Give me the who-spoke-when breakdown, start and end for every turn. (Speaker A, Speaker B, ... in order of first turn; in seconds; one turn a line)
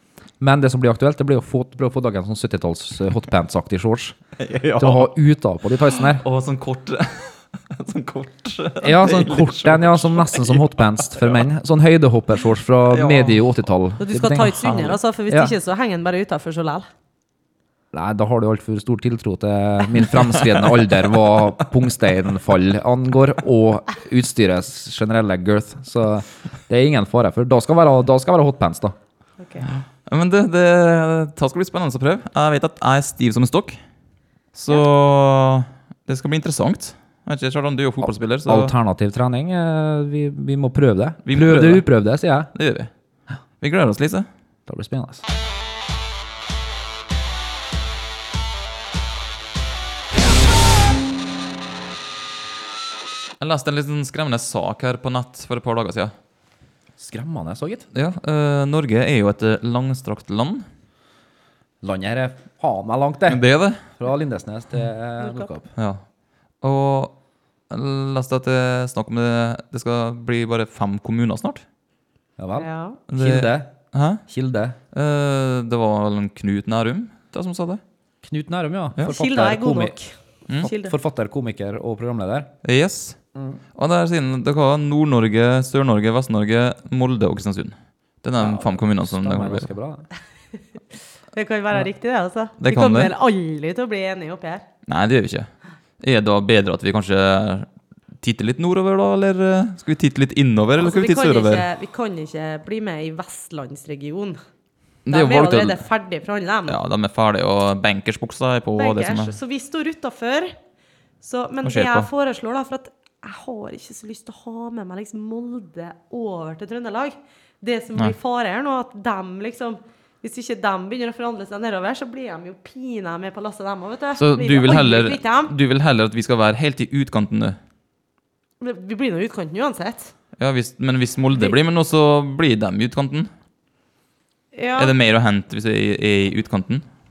Speaker A: 0.4-4.2
Speaker B: 4.4-5.1
Speaker A: 4.8-6.2
Speaker B: 6.0-11.4
Speaker A: 8.8-15.5
Speaker B: 12.9-13.4
Speaker C: 14.0-16.9
Speaker A: 17.9-28.9
Speaker C: 29.4-29.7
Speaker B: 29.7-33.8
Speaker B: 34.5-38.7
Speaker A: 38.0-42.5
Speaker B: 41.2-41.9
Speaker B: 42.5-42.9
Speaker B: 43.6-44.3
Speaker A: 44.7-45.2
Speaker B: 53.4-56.1
Speaker A: 57.0-57.9
Speaker B: 57.9-60.6
Speaker A: 61.8-63.4
Speaker B: 63.3-63.8
Speaker A: 64.0-65.7
Speaker C: 65.2-65.5
Speaker B: 65.8-66.0
Speaker B: 66.6-67.1
Speaker B: 67.7-71.6
Speaker A: 72.4-73.7
Speaker C: 72.6-73.0
Speaker B: 73.1-74.2
Speaker A: 74.3-74.8
Speaker B: 74.9-77.8
Speaker A: 78.2-80.0
Speaker C: 79.0-81.0
Speaker A: 80.6-82.5
Speaker B: 82.6-83.2
Speaker B: 83.8-89.7
Speaker A: 88.4-90.1
Speaker C: 91.3-94.6
Speaker B: 92.6-93.1
Speaker B: 94.9-97.7
Speaker B: 98.2-101.6
Speaker C: 100.8-104.4
Speaker B: 105.1-105.8
Speaker C: 105.1-106.8
Speaker B: 106.7-109.3
Speaker C: 108.8-110.5
Speaker C: 111.2-125.5
Speaker B: 111.6-112.1
Speaker B: 124.2-127.6
Speaker C: 128.6-130.1
Speaker B: 130.4-133.3
Speaker C: 134.5-134.9
Speaker B: 134.8-136.8